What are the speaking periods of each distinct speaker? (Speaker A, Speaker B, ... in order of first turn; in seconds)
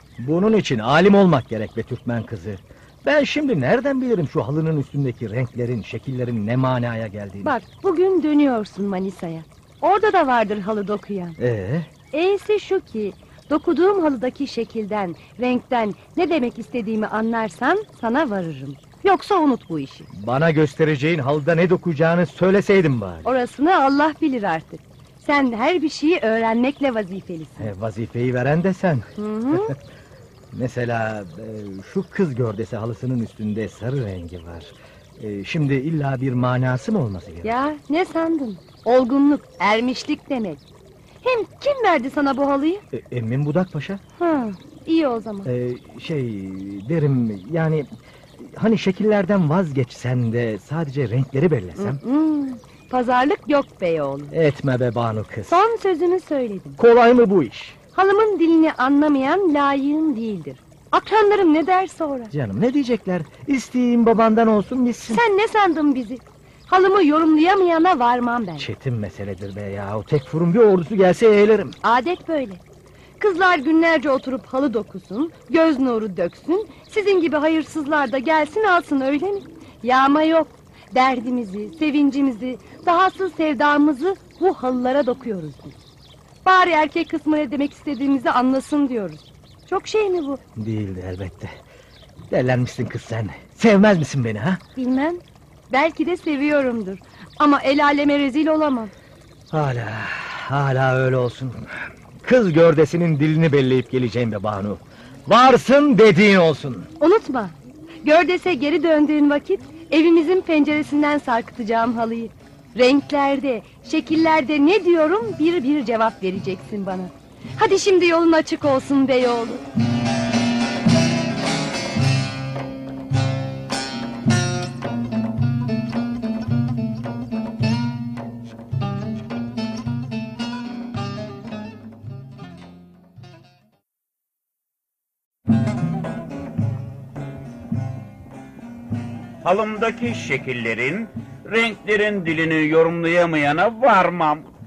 Speaker A: 0.2-7.5, 11.4-11.9, 20.1-23.3, 27.6-29.6, 30.5-37.5, 42.9-44.0, 45.4-52.0, 54.3-55.6, 56.8-57.8, 62.3-65.2, 68.6-71.8, 90.5-91.5, 92.3-94.6, 99.5-101.7, 102.2-106.9
Speaker B: 7.4-11.4, 12.1-20.1, 23.2-27.7, 29.2-29.7, 37.4-40.6, 41.2-42.8, 44.2-45.5, 51.8-54.3, 55.5-56.8, 57.9-62.3, 65.1-68.7, 71.8-72.6, 73.2-85.8, 86.4-90.4, 94.8-98.9, 107.0-119.6
Speaker C: 139.4-144.5